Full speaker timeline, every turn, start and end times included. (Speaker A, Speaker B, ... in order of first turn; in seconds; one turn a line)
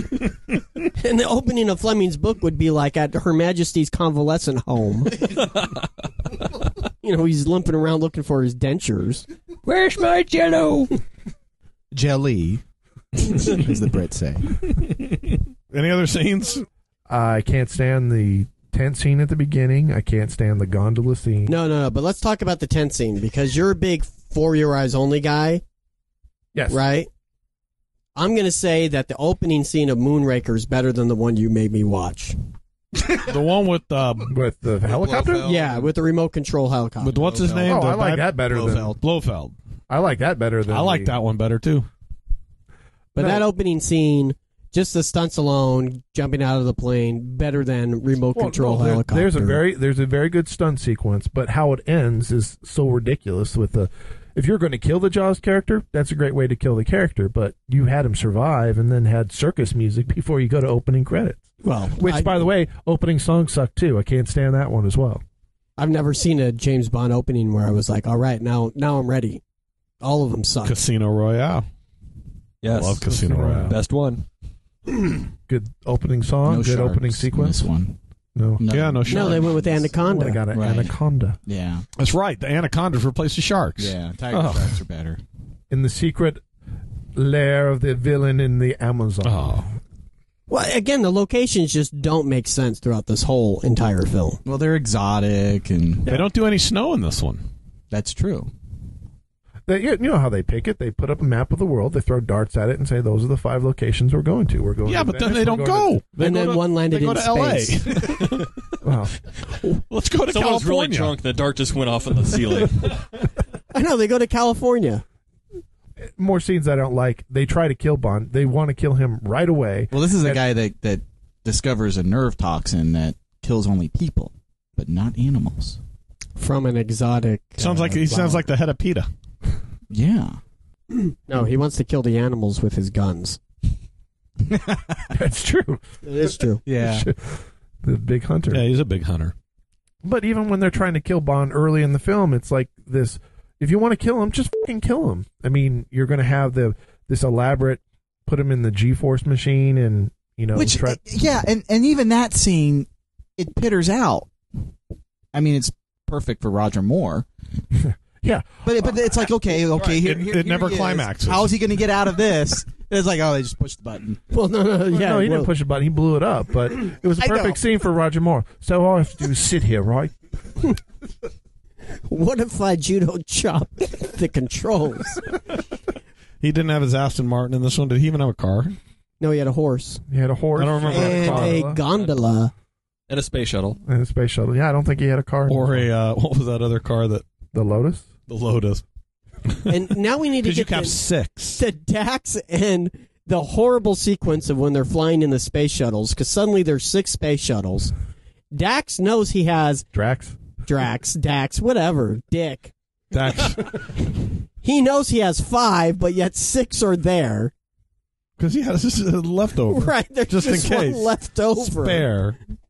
Speaker A: 0.9-5.3
Speaker A: 7.0-9.3
Speaker B: 9.7-10.9
Speaker C: 11.9-12.6
Speaker C: 13.3-14.6
Speaker D: 14.8-15.1
Speaker D: 15.7-16.6
Speaker E: 17.1-21.6
Speaker A: 21.5-25.6
Speaker E: 26.5-26.8
Speaker A: 26.7-27.1
Speaker A: 28.1-32.4
Speaker D: 33.1-34.3
Speaker E: 34.3-35.5
Speaker C: 34.8-35.9
Speaker A: 35.4-37.2
Speaker D: 37.0-39.5
Speaker C: 37.1-37.9
Speaker E: 37.7-39.0
Speaker C: 38.5-39.0
Speaker E: 39.9-41.1
Speaker D: 40.7-41.9
Speaker A: 43.1-49.6
Speaker E: 43.2-43.4
Speaker E: 48.4-65.2
Speaker A: 61.6-62.4
Speaker A: 65.8-69.4
Speaker A: 70.0-70.8
Speaker D: 70.6-71.7
Speaker B: 72.6-74.3
Speaker D: 72.7-73.8
Speaker E: 73.1-73.8
Speaker E: 75.5-77.7
Speaker C: 76.5-78.0
Speaker E: 78.4-78.7
Speaker C: 78.6-79.8
Speaker D: 78.7-79.6
Speaker A: 79.1-80.4
Speaker E: 80.0-81.4
Speaker C: 80.5-81.8
Speaker D: 82.0-84.8
Speaker C: 83.8-85.2
Speaker E: 85.7-86.4
Speaker E: 87.2-89.5
Speaker D: 89.2-89.7
Speaker A: 90.5-94.4
Speaker C: 94.5-96.2
Speaker D: 96.1-97.4
Speaker C: 97.9-98.5
Speaker E: 99.7-106.1
Speaker D: 104.8-108.8
Speaker A: 106.2-108.2
Speaker E: 108.8-109.2
Speaker D: 109.9-111.2
Speaker B: 110.3-113.0
Speaker A: 113.7-115.0
Speaker E: 116.2-120.4
Speaker C: 119.9-125.8
Speaker A: 126.4-128.5
Speaker D: 127.6-129.1
Speaker C: 129.9-130.4
Speaker A: 131.1-133.4
Speaker C: 134.5-135.0
Speaker E: 135.1-135.8
Speaker A: 136.0-136.6
Speaker C: 136.7-137.1
Speaker E: 136.7-138.7
Speaker D: 138.5-139.3
Speaker E: 140.0-151.0
Speaker C: 150.5-154.3
Speaker C: 155.3-157.3
Speaker E: 157.8-159.1
Speaker C: 158.6-164.2
Speaker D: 159.8-161.6
Speaker A: 164.3-165.5
Speaker E: 164.9-170.1
Speaker A: 167.2-167.6
Speaker A: 172.1-175.3
Speaker D: 176.4-178.8
Speaker A: 179.2-180.0
Speaker E: 180.1-181.8
Speaker D: 180.6-181.6
Speaker A: 180.9-182.5
Speaker B: 183.1-183.8
Speaker E: 183.8-185.9
Speaker D: 185.5-187.2
Speaker E: 187.5-188.1
Speaker D: 188.3-188.8
Speaker D: 189.5-189.8
Speaker A: 189.7-191.0
Speaker D: 190.4-191.6
Speaker A: 191.6-197.9
Speaker A: 198.5-199.8
Speaker E: 199.9-200.4
Speaker A: 200.7-202.7
Speaker D: 203.1-203.8
Speaker A: 204.6-207.5
Speaker D: 208.4-212.4
Speaker A: 209.7-212.1